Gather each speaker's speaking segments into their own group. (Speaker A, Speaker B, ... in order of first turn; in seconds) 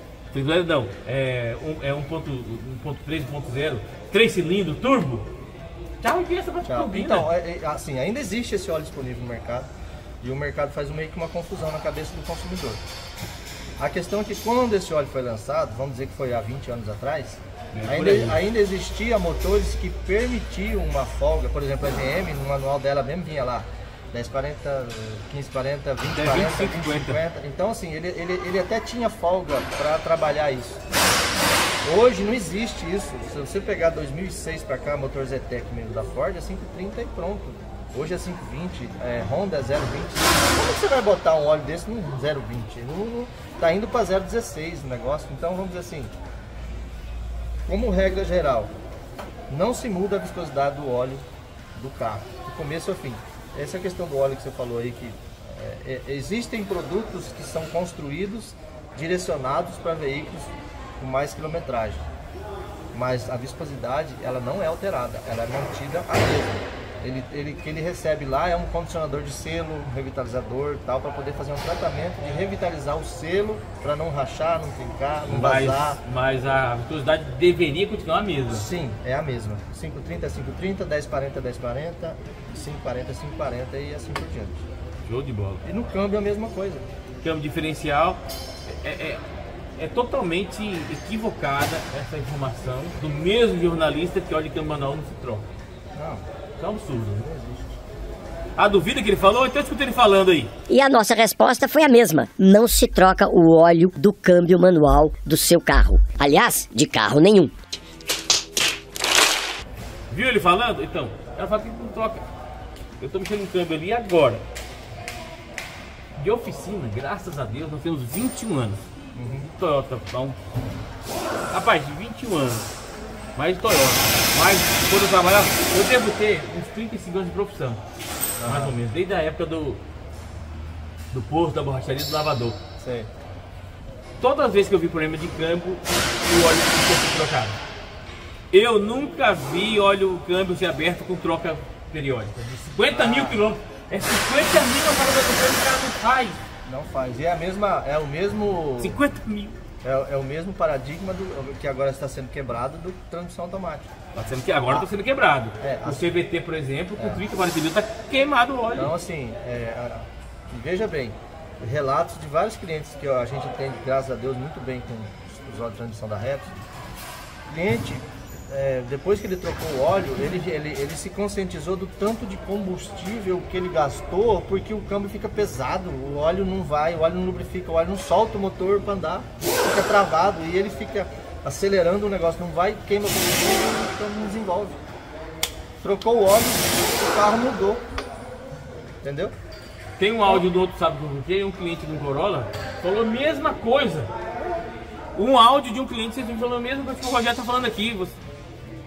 Speaker A: 0.3-5.3, 6.0-7.3, 17.7-18.4, 26.1-27.2, 75.3-78.7, 85.0-85.6, 87.2-89.2, 89.8-95.5, 96.6-97.7, 98.6-100.5, 110.1-112.2, 113.0-114.4, 116.2-118.8, 119.5-120.4, 121.5-122.7, 123.3-127.8, 128.4-129.8, 131.1-132.6, 134.2-137.6, 138.5-146.4, 148.8-149.6, 154.1-158.9, 190.0-194.1, 195.1-198.2
Speaker B: 6.6-12.8, 13.8-30.8, 31.8-46.1, 47.7-48.8, 49.5-62.1, 62.9-76.0, 78.5-84.7, 85.6-86.9, 95.9-96.2, 119.1-119.5, 128.4-128.8, 132.8-133.1, 142.9-143.5, 146.6-149.0, 149.8-153.9, 155.6-156.2, 157.0-157.2, 158.7-166.6, 167.5-184.8, 185.8-187.9, 189.0-189.3
Speaker C: 100.7-107.5